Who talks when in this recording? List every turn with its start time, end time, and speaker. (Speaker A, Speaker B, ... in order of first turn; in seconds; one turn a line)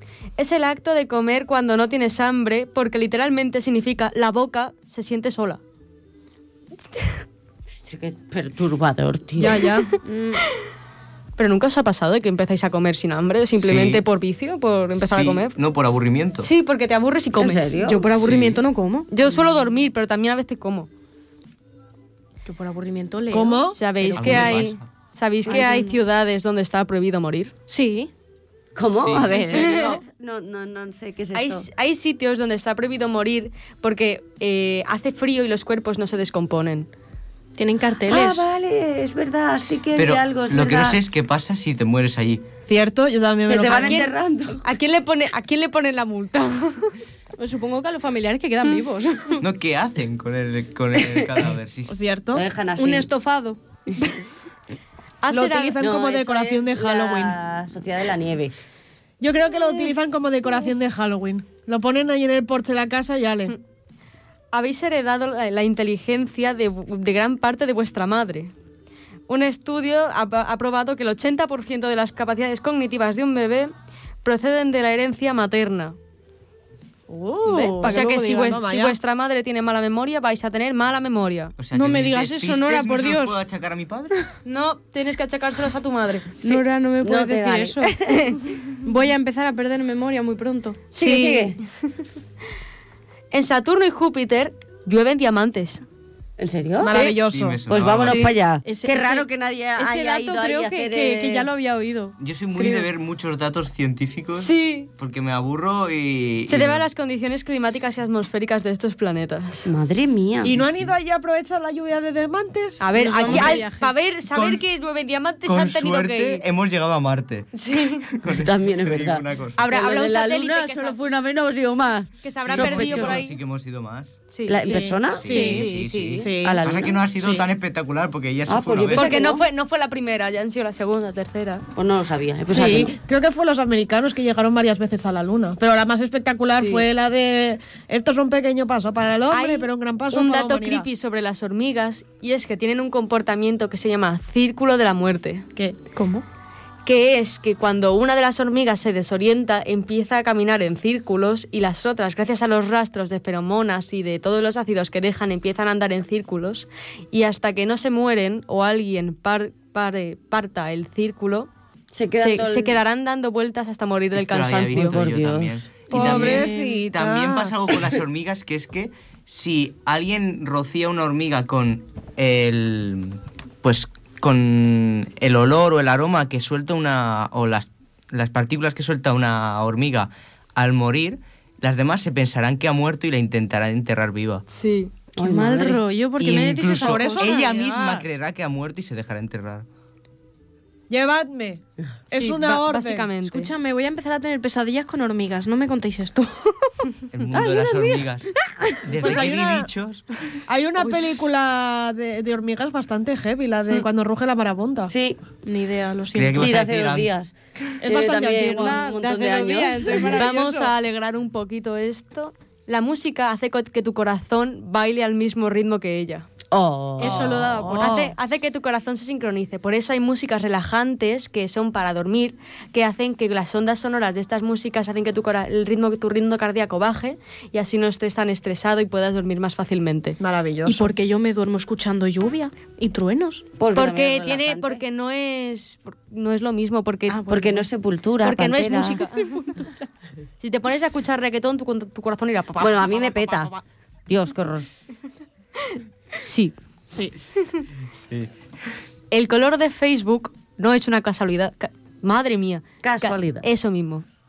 Speaker A: 0.4-5.6
Speaker B: 7.7-9.8
Speaker A: 9.4-10.6
Speaker C: 9.4-10.4
Speaker A: 11.4-15.6
Speaker D: 13.6-14.0
Speaker D: 14.9-16.5
Speaker A: 16.4-17.8
Speaker B: 17.4-18.2
Speaker C: 17.8-19.3
Speaker D: 18.1-18.6
Speaker A: 19.1-20.9
Speaker C: 22.4-24.5
Speaker E: 23.3-23.8
Speaker A: 23.7-27.5
Speaker D: 24.1-24.9
Speaker C: 25.5-26.0
Speaker C: 27.7-28.1
Speaker B: 28.7-31.6
Speaker D: 28.9-29.5
Speaker A: 29.3-30.0
Speaker A: 31.3-36.9
Speaker C: 37.6-38.5
Speaker B: 38.1-41.0
Speaker D: 39.9-42.4
Speaker E: 42.7-44.1
Speaker B: 43.5-44.6
Speaker A: 43.7-44.1
Speaker A: 44.6-47.0
Speaker C: 47.4-49.4
Speaker D: 49.4-52.0
Speaker B: 51.0-51.3
Speaker E: 51.9-52.5
Speaker B: 52.3-53.1
Speaker C: 52.8-53.6
Speaker A: 55.2-55.9
Speaker E: 55.3-57.4
Speaker B: 55.8-58.5
Speaker E: 59.2-63.5
Speaker A: 64.5-68.5
Speaker A: 69.3-73.7
Speaker A: 74.2-76.0
Speaker E: 77.1-79.0
Speaker C: 77.5-78.6
Speaker A: 77.8-81.5
Speaker D: 81.6-84.2
Speaker C: 81.7-83.4
Speaker A: 84.4-86.4
Speaker C: 86.4-87.9
Speaker B: 86.4-88.4
Speaker A: 88.1-88.4
Speaker C: 88.8-90.9
Speaker A: 90.9-91.9
Speaker B: 91.0-91.6
Speaker A: 93.3-95.8
Speaker B: 96.4-97.0
Speaker E: 96.8-97.6
Speaker A: 96.8-97.2
Speaker D: 97.0-98.3
Speaker B: 97.7-101.5
Speaker A: 98.0-98.3
Speaker C: 98.6-99.2
Speaker C: 99.8-102.8
Speaker D: 102.2-106.8
Speaker A: 104.3-104.9
Speaker A: 106.5-109.7
Speaker B: 109.7-110.5
Speaker E: 110.4-113.5
Speaker D: 110.5-110.9
Speaker A: 112.8-116.4
Speaker C: 112.9-113.9
Speaker D: 114.3-114.6
Speaker D: 115.4-117.5
Speaker A: 117.5-118.2
Speaker D: 118.1-119.6
Speaker B: 118.2-122.1
Speaker A: 119.6-121.0
Speaker A: 122.2-123.4
Speaker D: 122.4-124.2
Speaker E: 122.5-123.1
Speaker A: 124.3-126.3
Speaker B: 124.5-125.5
Speaker E: 124.6-125.6
Speaker D: 125.2-129.2
Speaker E: 126.2-126.6
Speaker B: 126.4-127.1
Speaker E: 127.2-127.5
Speaker B: 128.5-129.4
Speaker A: 128.9-131.7
Speaker B: 131.7-133.0
Speaker E: 132.5-140.9
Speaker A: 136.5-136.9
Speaker A: 139.3-145.5
Speaker C: 145.9-146.2
Speaker A: 146.8-161.5
Speaker B: 161.9-162.8
Speaker A: 162.1-165.0
Speaker D: 164.1-184.4
Speaker B: 164.8-165.7
Speaker E: 165.9-167.8
Speaker A: 165.9-166.3
Speaker C: 166.1-166.8
Speaker A: 184.5-184.9
Speaker B: 185.2-185.8
Speaker C: 185.2-187.2
Speaker D: 186.2-189.7
Speaker E: 186.6-188.1
Speaker E: 190.9-193.1
Speaker A: 192.1-193.5
Speaker C: 193.3-196.7
Speaker D: 197.1-198.3
Speaker D: 198.8-200.0
Speaker E: 199.0-199.7
Speaker E: 200.5-204.9
Speaker A: 200.8-201.2
Speaker B: 204.9-205.2
Speaker C: 205.4-206.6
Speaker D: 206.1-207.1
Speaker B: 206.3-210.3
Speaker E: 207.8-210.6
Speaker C: 208.7-210.6
Speaker A: 210.0-216.3
Speaker B: 216.5-217.7
Speaker C: 217.0-218.1
Speaker E: 217.0-218.1
Speaker A: 217.8-230.2
Speaker E: 230.2-230.9
Speaker C: 230.6-233.4
Speaker B: 233.6-234.8
Speaker A: 233.7-237.3
Speaker C: 237.1-237.7
Speaker B: 237.3-239.0
Speaker A: 238.2-239.7
Speaker C: 239.3-239.6
Speaker A: 240.4-243.5
Speaker B: 242.6-243.5
Speaker B: 244.1-244.7
Speaker A: 245.7-246.6
Speaker D: 247.9-248.3
Speaker A: 249.1-254.0
Speaker B: 252.8-253.5